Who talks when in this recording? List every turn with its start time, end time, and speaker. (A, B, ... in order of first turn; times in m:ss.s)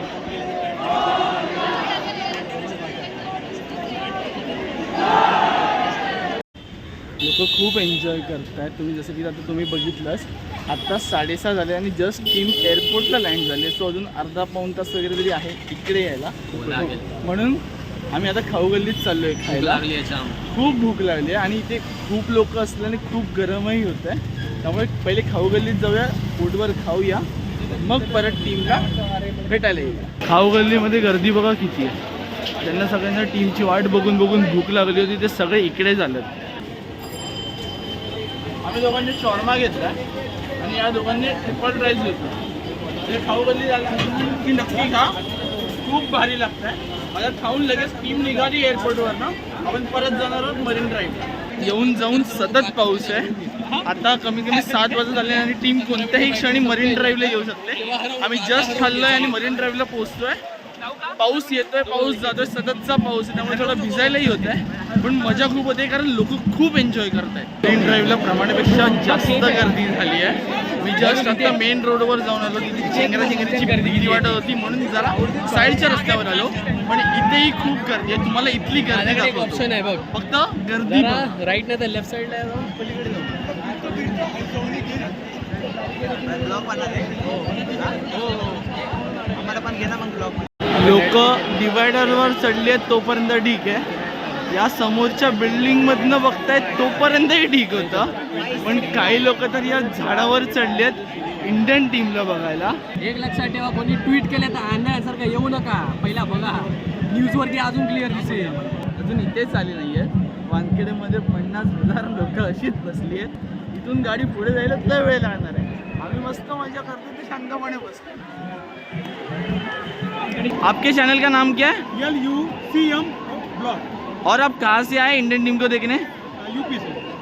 0:07.2-0:19.8 A
0:16.5-0:17.2 B
0:19.5-0:20.4 B
0:20.4-0:32.0 A
0:32.6-0:36.3 A
0:38.6-0:40.0 A
0:40.6-0:42.4 A
0:43.0-0:45.2 A
0:45.7-1:00.4 A
0:51.6-0:53.8 B
0:54.6-0:55.2 B
0:55.8-0:59.5 B
1:01.0-1:21.3 A
1:11.0-1:11.6 B
1:12.9-1:14.3 B
1:18.9-1:20.1 B
1:20.8-1:24.0 B
1:26.3-1:28.6 B
1:29.4-1:30.1 B
1:29.5-1:30.4 C
1:30.7-1:33.8 A
1:34.5-1:42.8 A
1:38.1-1:39.0 B
1:43.0-1:48.7 B
1:48.9-1:58.2 A
2:00.5-2:01.8 A
2:02.0-2:03.8 C
2:04.2-2:06.0 A
2:06.5-2:07.0 C